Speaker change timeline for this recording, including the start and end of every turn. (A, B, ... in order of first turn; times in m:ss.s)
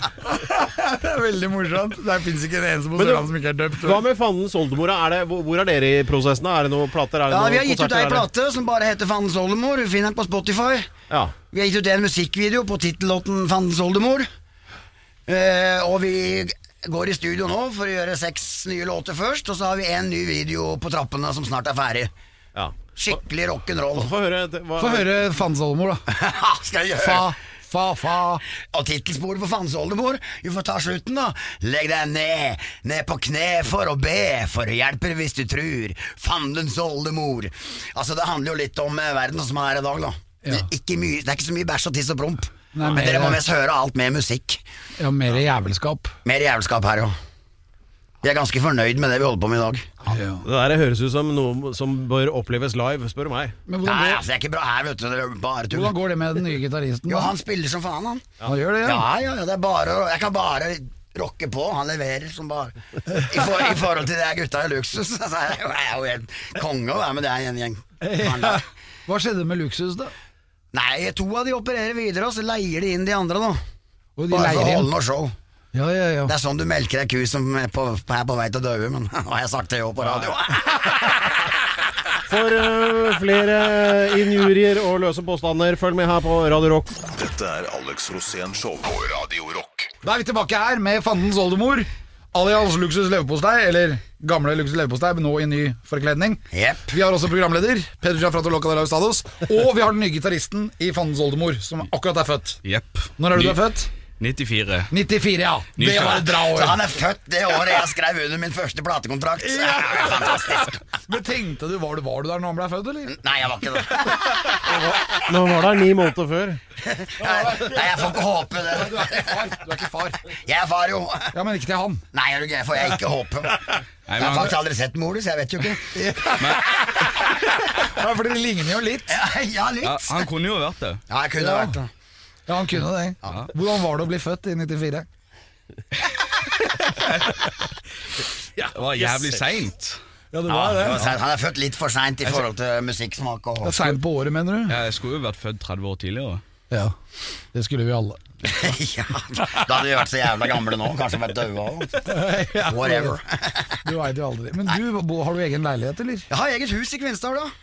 0:00.3-0:04.0 A
0:03.0-0:08.3 B
0:07.3-0:10.9 C
0:11.1-0:11.4 B
0:11.5-0:14.3 C
0:15.3-0:22.1 C
0:22.6-0:23.2 B
0:22.9-0:24.1 C
0:23.9-0:25.3 B
0:24.8-0:26.0 A
0:26.1-0:27.3 C
0:27.0-0:28.4 A
0:28.6-0:44.6 C
0:42.7-0:43.4 A
0:45.0-0:46.2 A
0:46.2-0:47.2 C
0:48.2-0:49.9 C
0:50.1-0:50.4 A
0:50.4-0:53.6 B
0:53.7-0:54.2 A
0:53.8-0:56.0 C
0:55.7-0:57.4 A
0:57.1-0:58.3 C
0:58.4-0:59.1 A
0:58.8-1:08.6 C
1:08.0-1:10.1 A
1:10.7-1:13.6 C
1:14.2-1:14.9 A
1:14.3-1:15.4 C
1:15.7-1:16.3 A
1:16.3-1:21.0 C
1:20.0-1:20.4 B
1:22.3-1:26.9 B
1:27.1-1:29.9 D
1:30.0-1:42.6 A
1:36.5-1:36.9 C
1:42.6-1:43.6 E
1:43.2-1:43.9 A
1:44.2-1:44.9 E
1:44.9-1:46.9 A
1:45.8-1:46.3 E
1:46.4-1:50.8 C
1:49.4-1:53.2 A
1:53.1-1:54.9 C
1:54.7-1:56.6 B
1:56.8-1:59.5 C
1:57.2-2:00.2 A
2:00.3-2:01.3 C
2:01.3-2:02.0 A
2:02.1-2:05.9 C
2:04.1-2:04.6 E
2:05.9-2:09.2 A
2:06.4-2:06.8 E
2:09.1-2:10.3 C
2:09.8-2:11.0 E
2:11.1-2:11.9 C
2:11.4-2:11.8 A
2:12.5-2:15.1 A
2:18.6-2:19.4 B
2:18.7-2:20.0 E
2:20.3-2:21.2 A
2:20.5-2:23.8 C
2:23.6-2:24.8 A
2:24.7-2:26.4 E
2:27.5-2:28.2 A
2:28.4-2:32.2 C
2:32.0-2:33.2 A
2:32.7-2:33.8 C
2:33.8-2:36.3 A
2:36.3-2:37.5 C